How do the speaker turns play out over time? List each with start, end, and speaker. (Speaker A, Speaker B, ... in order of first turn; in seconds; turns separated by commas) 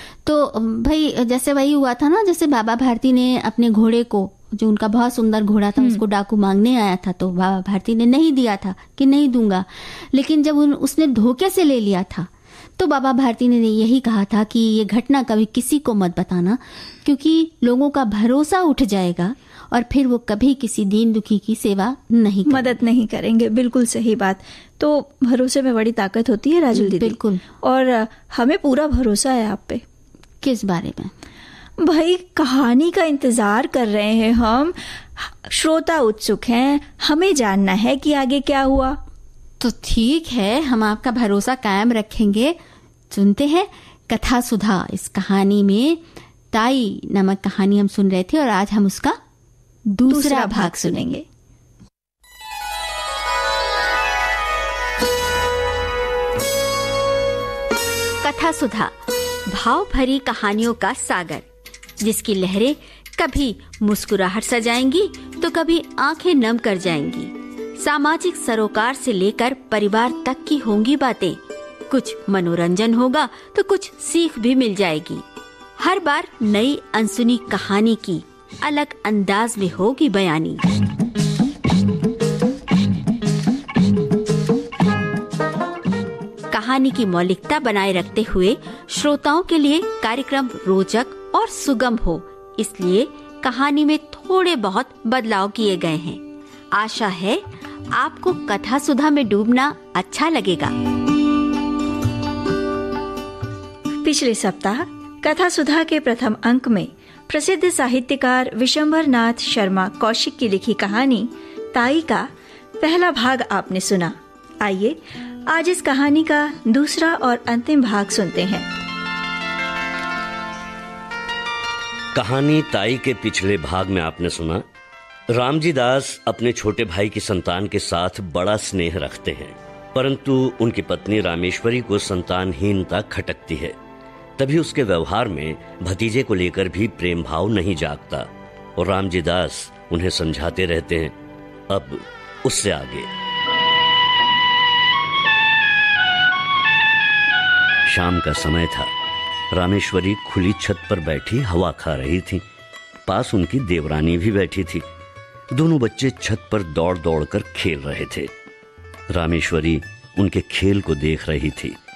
Speaker A: 0.2-22.8, Speaker B: 22.5-29.8, Speaker A: 26.7-27.4, Speaker A: 30.4-31.1, Speaker B: 31.8-39.0, Speaker A: 39.6-42.6, Speaker A: 43.1-49.2, Speaker A: 49.9-51.0, Speaker B: 50.1-51.2, Speaker A: 58.2-59.0, Speaker A: 59.5-61.5, Speaker A: 62.0-75.2, Speaker A: 75.8-80.7, Speaker A: 86.5-100.8, Speaker B: 104.0-112.3, Speaker B: 112.8-118.7, Speaker C: 122.2-124.6, Speaker C: 125.3-133.8, Speaker C: 134.4-141.2, Speaker C: 141.7-143.1, Speaker C: 147.9-148.9, Speaker C: 149.5-152.4, Speaker C: 153.1-154.8, Speaker C: 155.5-158.3, Speaker C: 159.1-161.8